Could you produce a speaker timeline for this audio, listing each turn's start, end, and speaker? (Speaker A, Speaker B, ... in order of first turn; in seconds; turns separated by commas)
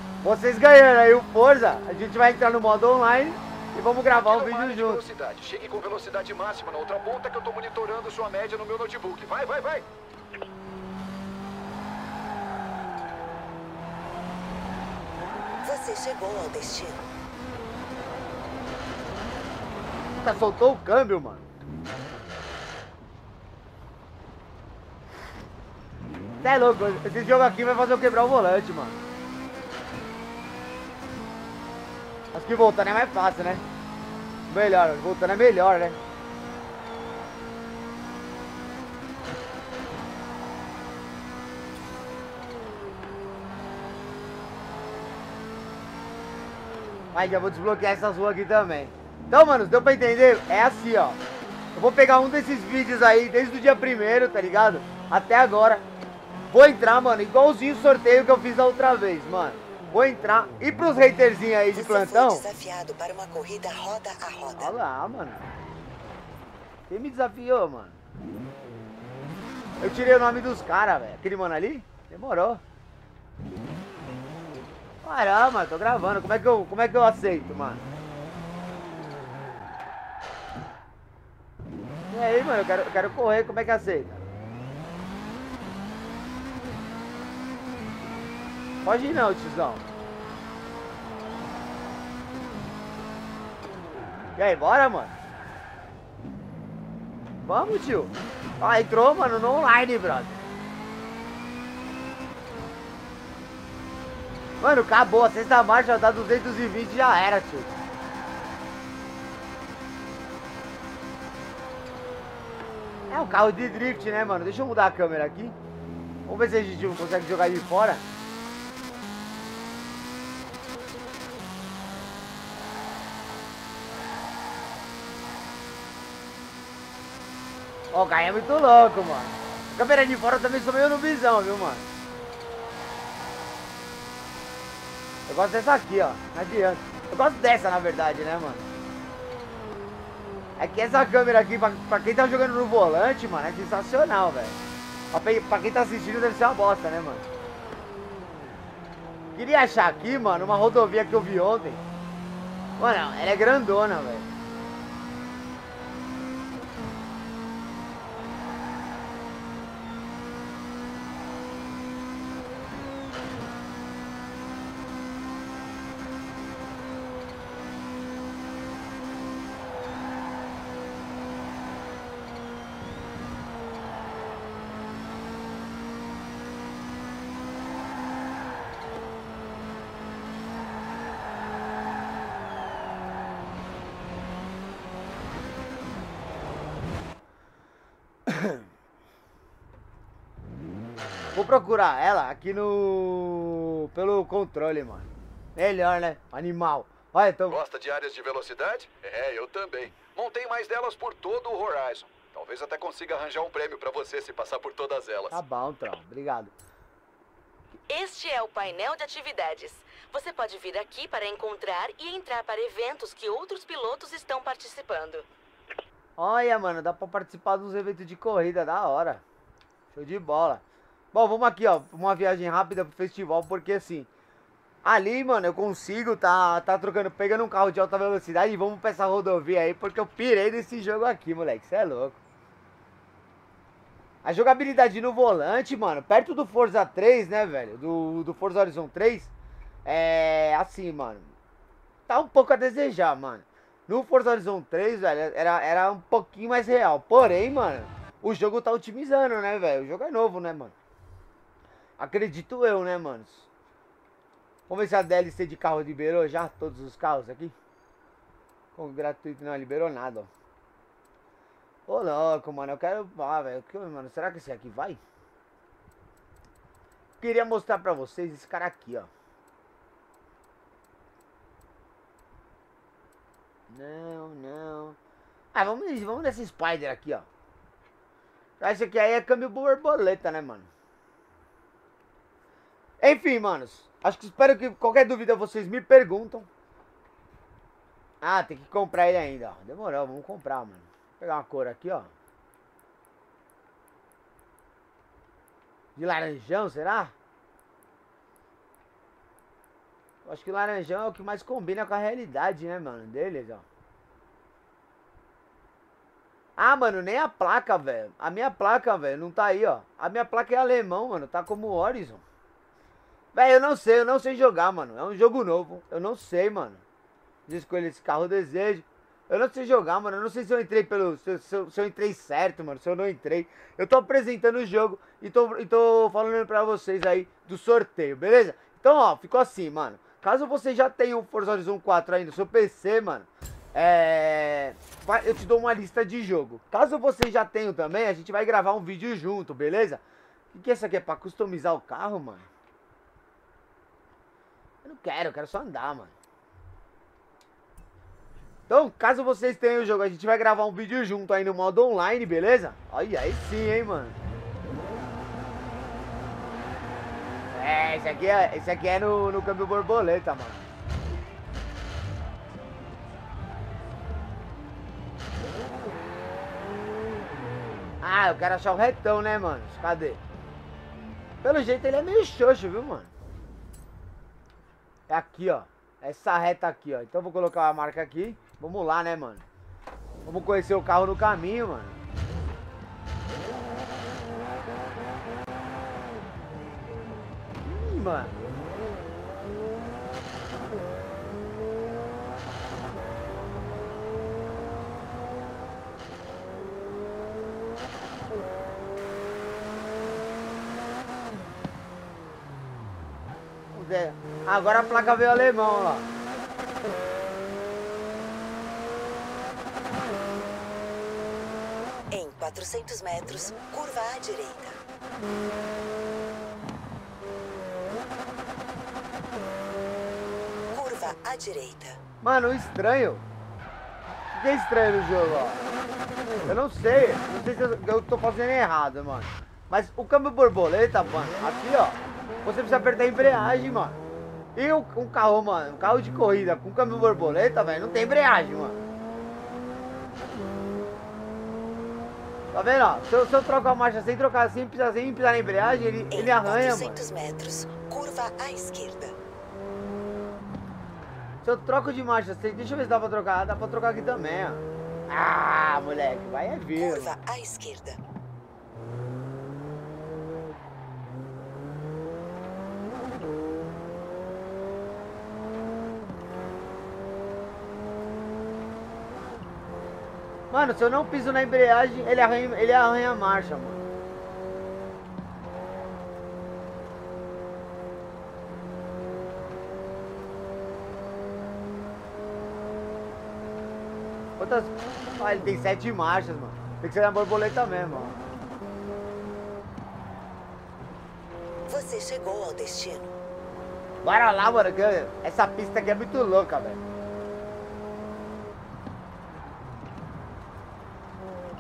Speaker A: 0.2-5.0, Speaker B: 4.1-9.9, Speaker C: 15.6-17.0, Speaker A: 20.2-21.5, Speaker A: 26.4-29.0, Speaker A: 32.3-33.6, Speaker A: 34.5-36.0, Speaker A: 47.1-51.2, Speaker A: 51.7-55.9, Speaker A: 56.5-62.5, Speaker C: 61.7-64.8, Speaker A: 64.6-65.5, Speaker A: 66.9-68.0, Speaker A: 69.8-72.6, Speaker A: 75.0-77.8, Speaker A: 82.1-84.2, Speaker A: 88.8-89.9, Speaker A: 94.4-95.2, Speaker A: 97.4-100.4, Speaker A: 104.6-107.7, Speaker A: 113.1-115.6, Speaker A: 116.3-118.0, Speaker A: 127.9-131.8, Speaker A: 135.3-138.7, Speaker A: 140.6-144.6, Speaker A: 145.1-147.2, Speaker A: 149.3-151.8, Speaker A: 152.8-154.3, Speaker A: 188.3-188.6, Speaker A: 191.3-197.6, Speaker B: 197.5-205.4, Speaker A: 205.3-206.5, Speaker D: 207.9-215.2, Speaker A: 216.2-219.2, Speaker A: 219.9-220.6, Speaker A: 221.1-224.1, Speaker A: 224.8-232.2, Speaker A: 234.2-239.3, Speaker A: 239.8-241.3, Speaker A: 242.1-250.7, Speaker A: 252.0-253.5, Speaker A: 254.7-257.5, Speaker A: 258.8-260.3, Speaker A: 261.9-265.0, Speaker A: 267.2-269.1, Speaker A: 273.7-275.0, Speaker A: 275.5-277.3, Speaker A: 278.6-280.7, Speaker A: 283.0-286.5, Speaker A: 288.2-292.1, Speaker A: 296.0-297.1, Speaker A: 300.2-303.6, Speaker A: 306.6-312.2, Speaker A: 313.3-316.8, Speaker A: 317.5-340.0, Speaker A: 340.5-342.5, Speaker A: 344.8-346.1, Speaker A: 348.7-354.2, Speaker A: 357.5-360.6, Speaker A: 368.0-370.2, Speaker A: 371.4-373.1, Speaker A: 375.1-379.4, Speaker A: 380.2-382.0, Speaker A: 387.6-388.4, Speaker A: 403.7-406.1, Speaker C: 412.1-414.8, Speaker C: 420.7-422.0, Speaker A: 422.2-423.2, Speaker A: 424.3-425.6, Speaker A: 426.4-434.0, Speaker A: 434.6-438.8, Speaker A: 442.5-447.0, Speaker C: 446.1-449.1, Speaker A: 451.4-457.2, Speaker C: 456.8-458.0, Speaker A: 470.5-473.9, Speaker A: 484.4-488.2, Speaker C: 491.7-493.1, Speaker A: 494.0-496.8